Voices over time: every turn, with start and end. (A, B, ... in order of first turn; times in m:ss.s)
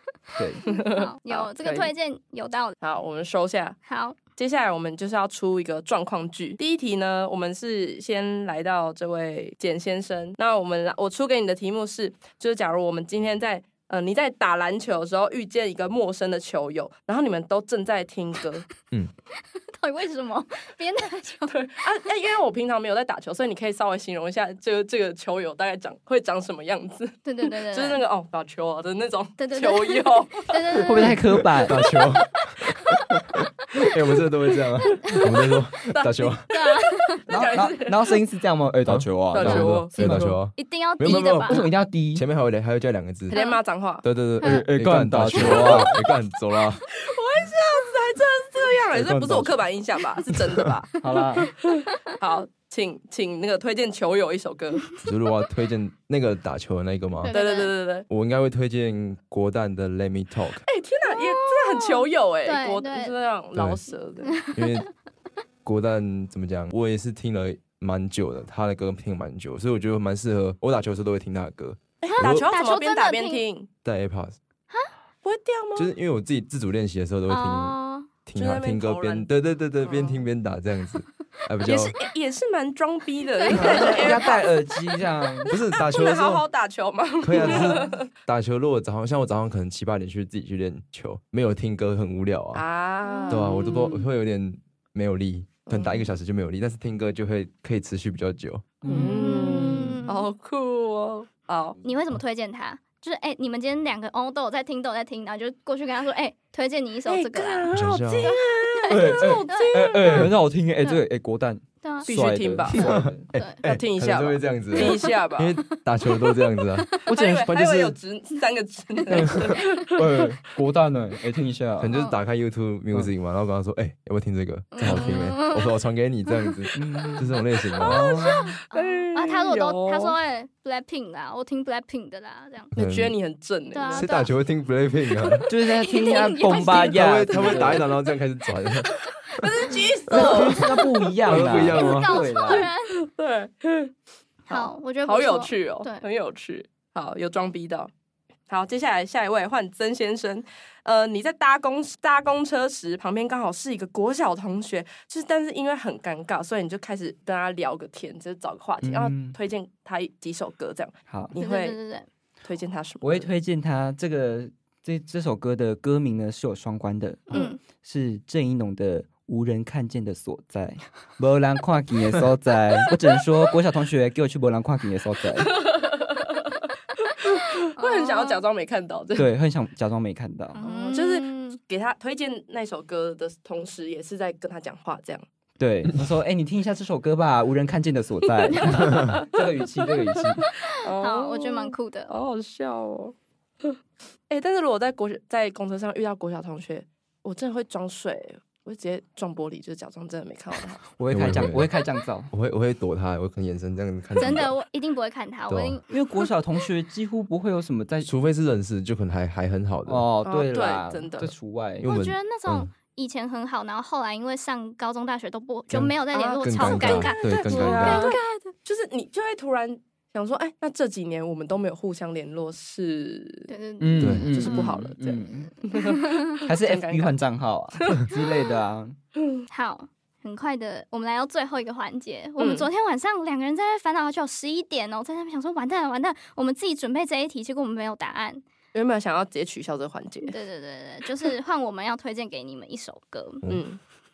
0:00.4-0:00.6 A
0:00.6-0:02.8 B
0:00.6-0:01.9 C
0:02.8-0:03.8 C
0:03.8-0:04.2 B
0:04.4-0:18.7 C
0:19.7-0:21.6 B
0:21.5-0:30.5 C
0:27.2-0:28.0 B
0:29.4-0:32.1 B
0:30.8-0:31.8 A
0:31.1-0:36.5 D
0:34.9-0:35.4 B
0:35.9-0:36.4 C
0:36.5-0:37.2 B
0:37.3-0:38.1 C
0:37.3-0:40.4 A
0:38.8-0:43.4 D
0:39.3-0:40.2 C
0:40.6-0:41.6 B
0:41.1-0:42.2 A
0:43.3-0:44.0 C
0:43.3-0:43.6 B
0:44.0-0:46.8 D
0:44.4-0:44.6 B
0:44.4-0:45.9 A
0:45.3-0:45.8 C
0:45.4-0:45.8 B
0:46.9-0:50.9 C
0:48.9-0:49.6 D
0:51.0-0:51.5 A
0:52.0-0:54.8 C
0:55.0-0:57.3 D
0:57.2-0:57.7 B
0:57.3-0:58.0 C
0:58.1-1:00.6 D
1:00.7-1:04.4 C
1:01.1-1:03.2 B
1:03.5-1:03.8 D
1:04.2-1:04.8 B
1:04.5-1:04.9 D
1:05.6-1:12.5 D
1:12.0-1:13.7 C
1:12.1-1:13.4 B
1:13.8-1:14.4 D
1:15.2-1:15.9 C
1:15.7-1:21.9 D
1:17.3-1:18.1 B
1:18.3-1:19.3 C
1:19.8-1:20.2 C
1:21.6-1:24.5 C
1:23.5-1:25.5 A
1:25.5-1:26.4 D
1:25.8-1:28.0 C
1:27.2-1:32.6 D
1:27.4-1:27.7 B
1:32.5-1:34.0 C
1:33.0-1:34.0 B
1:33.3-1:38.8 D
1:35.6-1:36.1 C
1:38.8-1:40.0 A
1:38.8-1:41.8 C
1:39.0-1:40.3 B
1:41.8-1:47.7 B
1:47.0-1:50.3 C
1:47.7-1:48.3 D
1:48.2-1:50.2 B
1:48.9-1:53.3 A
1:51.8-1:52.1 B
1:52.0-1:52.9 C
1:52.7-1:56.9 D
1:52.7-1:53.6 B
1:53.6-1:55.6 C
1:54.8-1:56.9 B
1:57.0-2:00.2 C
1:57.0-1:57.6 A
1:57.4-1:58.0 D
1:59.1-2:01.9 A
2:01.8-2:08.0 D
2:01.9-2:02.2 B
2:04.7-2:05.8 B
2:04.8-2:05.3 C
2:06.3-2:12.7 B
2:06.7-2:08.4 A
2:07.8-2:10.2 C
2:12.7-2:13.2 D
2:12.8-2:14.1 C
2:13.7-2:14.3 B
2:13.9-2:15.5 D
2:15.5-2:17.9 A
2:15.8-2:17.9 B
2:15.9-2:16.7 C
2:16.8-2:18.9 D
2:18.8-2:21.1 C
2:20.1-2:22.7 A
2:20.1-2:20.7 D
2:21.3-2:22.2 D
2:21.6-2:22.9 B
2:22.4-2:23.9 C
2:24.5-2:26.0 B
2:24.5-2:27.9 C
2:28.5-2:41.8 C
2:38.8-2:39.4 A
2:41.1-2:41.4 A
2:41.4-2:42.1 B
2:42.4-2:43.3 C
2:43.0-2:55.5 A
2:47.3-2:47.6 B
2:55.4-2:56.4 C
2:57.2-2:59.3 C
2:57.8-2:58.4 B
2:59.1-3:00.6 A
3:00.6-3:01.6 B
3:00.6-3:05.2 C
3:05.6-3:10.4 A
3:08.5-3:09.3 C
3:09.8-3:13.1 C
3:10.9-3:12.1 B
3:14.3-3:20.8 C
3:21.0-3:22.3 A
3:21.1-3:21.7 D
3:22.3-3:24.5 D
3:24.2-3:25.8 B
3:25.5-3:25.8 D
3:25.9-3:28.1 A
3:28.0-3:30.1 D
3:29.8-3:31.9 A
3:30.2-3:31.3 C
3:31.8-3:32.7 D
3:31.8-3:38.5 B
3:35.7-3:38.1 D
3:36.1-3:43.5 C
3:43.5-3:46.4 B
3:43.8-3:45.7 A
3:44.0-3:44.3 D
3:44.3-3:45.1 C
3:45.7-3:47.2 C
3:46.4-3:49.0 A
3:47.8-3:48.2 C
3:49.5-3:58.4 B
3:52.4-3:52.7 C
3:58.7-4:00.3 C
4:00.2-4:03.5 B
4:03.5-4:03.8 C